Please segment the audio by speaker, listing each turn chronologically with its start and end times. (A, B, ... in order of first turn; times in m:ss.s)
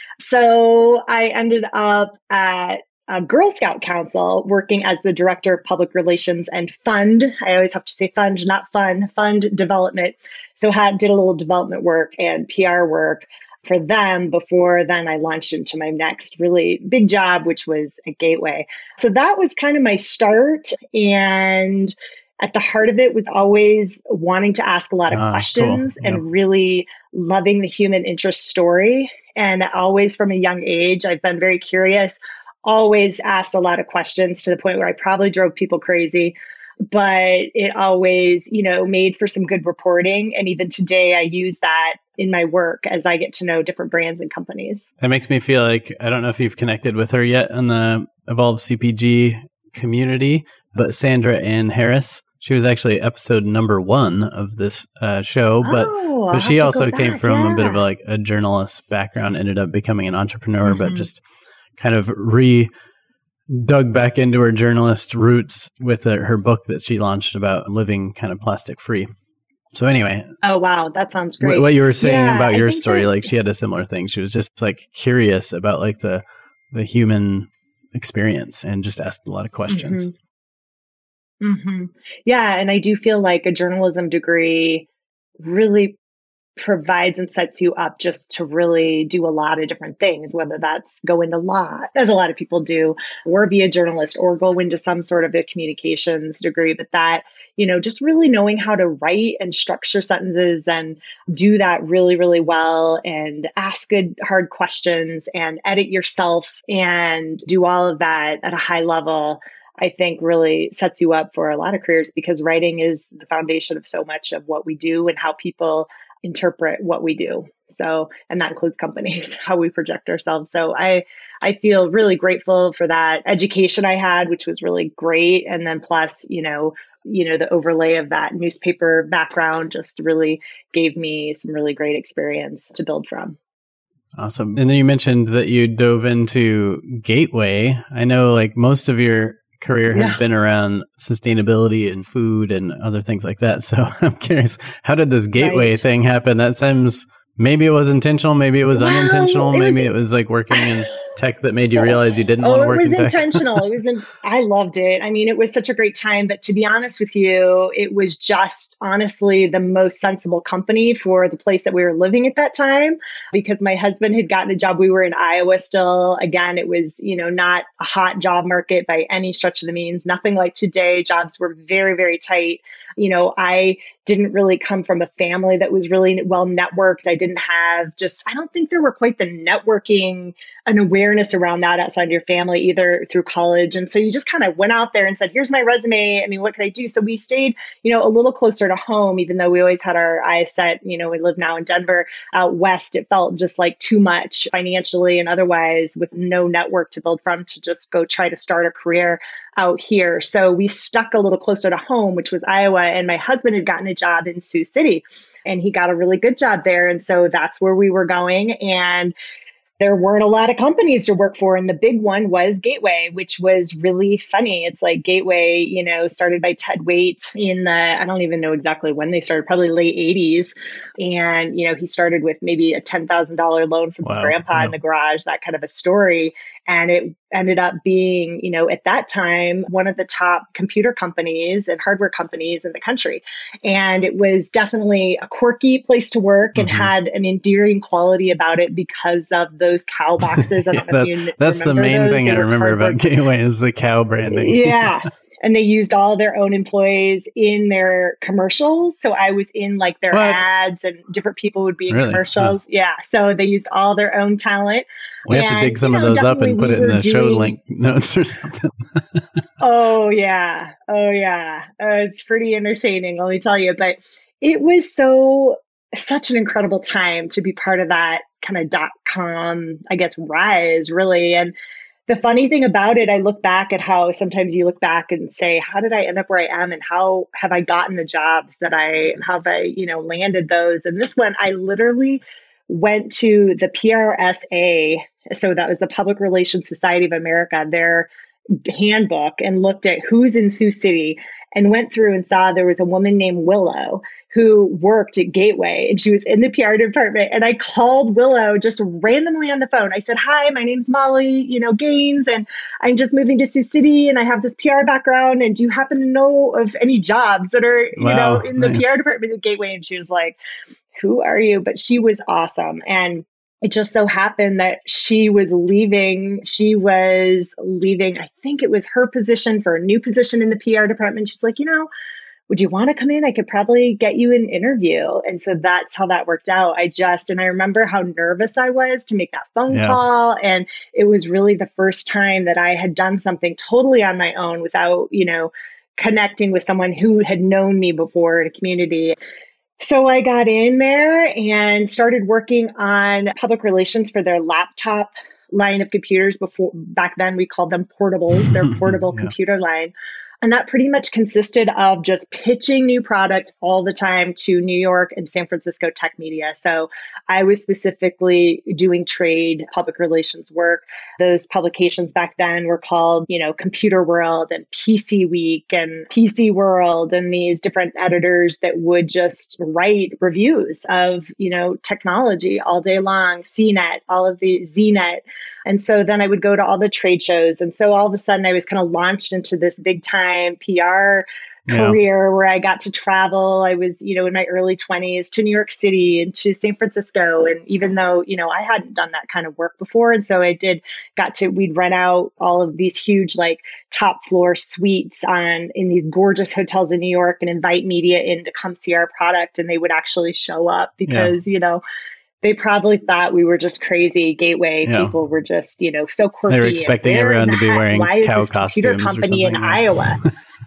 0:00.2-0:36.4 A
0:25.1-0:26.2 B
0:36.9-0:44.9 A
0:45.0-1:01.2 B
0:55.6-0:57.8 A
1:00.6-1:01.1 A
1:01.8-1:02.7 B
1:03.5-1:09.1 B
1:09.7-1:10.3 B
1:10.4-1:13.2 A
1:11.4-1:20.1 B
1:19.7-1:20.1 A
1:21.4-1:24.9 A
1:25.4-1:26.0 A
1:26.6-2:13.4 A
2:14.2-2:33.6 B
2:19.9-2:20.2 A
2:25.4-2:25.8 A
2:28.7-2:29.9 A
2:30.5-2:31.1 A
2:31.8-3:29.1 A
3:29.8-4:03.1 A
3:44.0-3:44.8 B
3:56.6-3:56.9 B
4:00.4-4:04.9 B
4:04.2-4:17.5 A
4:10.1-4:10.4 B
4:11.9-4:12.6 B
4:15.3-4:19.4 B
4:19.6-4:31.5 A
4:32.1-4:48.1 A
4:48.6-5:10.4 A
5:08.0-5:08.9 B
5:11.0-5:21.9 A
5:22.5-5:39.2 A
5:29.7-5:30.0 B
5:39.8-6:41.8 A
5:48.5-5:49.3 B
6:21.7-6:22.0 B
6:41.1-6:41.3 B
6:42.4-6:50.2 A
6:44.9-6:45.1 B
6:46.5-6:50.3 B